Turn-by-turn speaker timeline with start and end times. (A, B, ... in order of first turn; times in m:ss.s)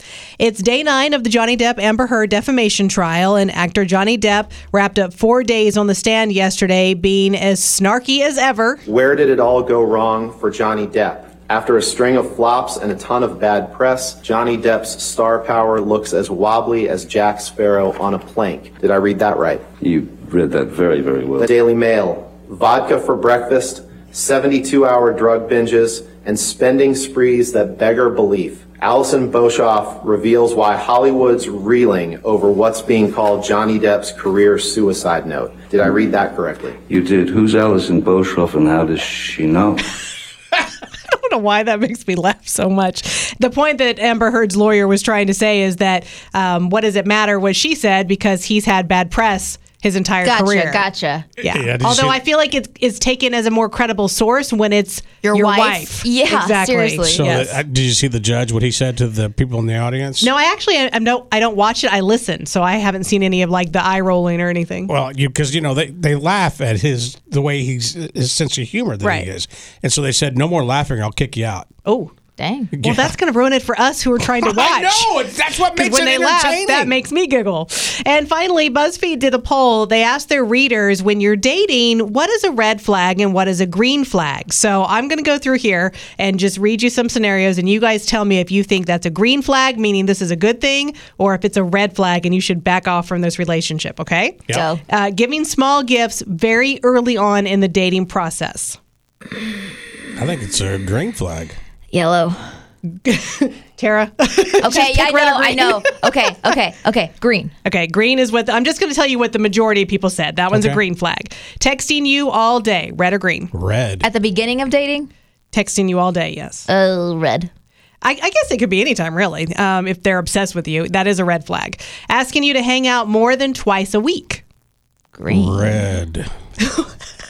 0:00.4-0:08.8 A
0:08.9-0:19.6 B
0:19.8-0:21.5 C
0:21.4-0:36.8 B
0:36.9-0:39.8 C
0:41.1-0:50.8 A
0:50.2-0:51.3 D
0:51.4-0:57.6 A
0:51.5-0:52.2 E
0:55.2-0:57.2 D
0:57.1-1:00.3 E
1:00.2-1:04.9 A
1:04.9-1:11.7 E
1:09.0-1:09.3 A
1:11.9-1:12.1 A
1:12.4-1:12.8 D
1:12.8-1:13.1 E
1:12.8-1:15.1 A
1:14.4-1:17.0 E
1:15.7-1:38.8 A
1:34.5-1:34.8 D
1:40.2-1:41.6 E
1:41.9-1:42.4 D
1:42.9-1:46.0 A
1:44.6-1:47.5 D
1:47.6-1:53.5 A
1:50.5-1:50.8 E
1:53.5-1:54.1 E
1:54.0-1:55.1 D
1:55.5-1:56.7 A
1:56.7-1:57.5 D
1:58.0-2:04.4 A
2:05.2-2:05.9 D
2:05.3-2:06.3 E
2:06.6-2:06.9 A